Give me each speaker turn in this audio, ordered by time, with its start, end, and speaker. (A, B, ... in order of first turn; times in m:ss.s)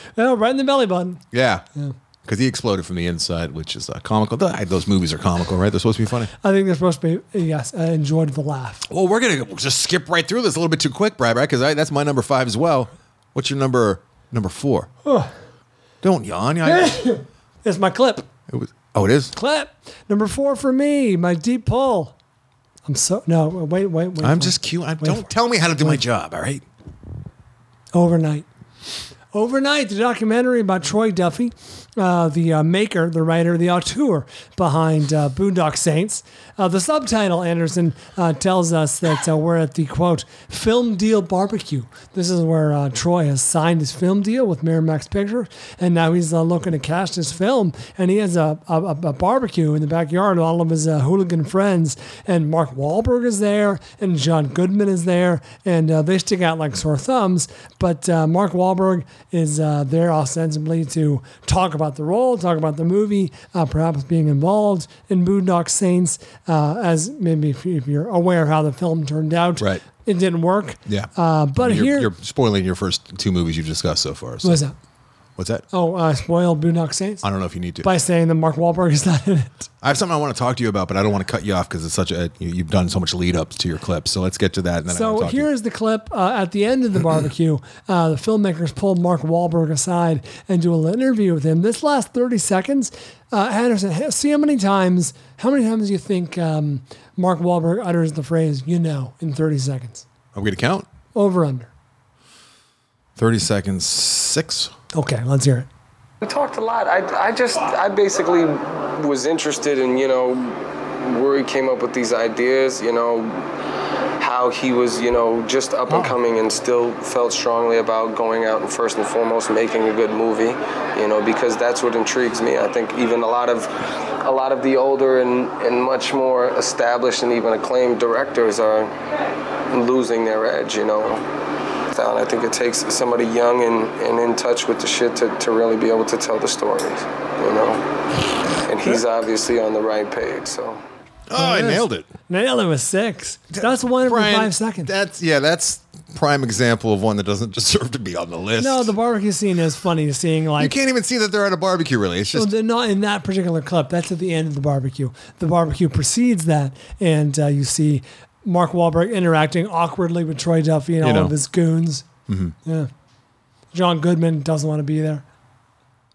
0:00.2-0:01.2 A
0:01.3-0:01.6 B
0:02.2-0:06.3 B
0:06.4-0:08.8 A
0:08.9-0:14.9 B
0:15.0-0:15.3 A
0:16.0-0:17.0 B
0:16.6-0:18.2 A
0:18.5-0:19.3 B
0:19.3-0:22.1 A
0:22.9-0:25.3 A
0:24.2-0:26.6 B
0:27.9-0:28.5 A
0:29.3-1:12.1 A
1:10.9-1:14.6 B
1:14.4-1:14.8 A
1:15.4-1:15.6 B
1:15.7-1:17.2 A
1:17.2-1:17.9 B
1:17.8-1:19.7 A
1:19.8-1:25.5 B
1:24.9-1:40.0 A
1:40.3-1:40.9 B
1:41.1-1:41.7 A
1:43.2-1:44.7 B
1:44.9-1:45.7 A
1:46.2-1:53.5 C
1:54.2-2:08.9 C
1:55.9-1:56.1 A
2:09.7-2:11.2 C
2:11.9-2:17.8 C
2:18.6-2:20.8 C
2:21.3-2:22.1 B
2:21.4-2:24.9 A
2:23.5-2:28.9 B
2:28.6-2:30.7 A
2:30.6-2:32.5 B
2:32.3-2:42.1 A
2:41.0-2:41.3 B
2:42.3-2:42.6 B
2:42.6-2:42.9 A
2:43.7-2:45.2 A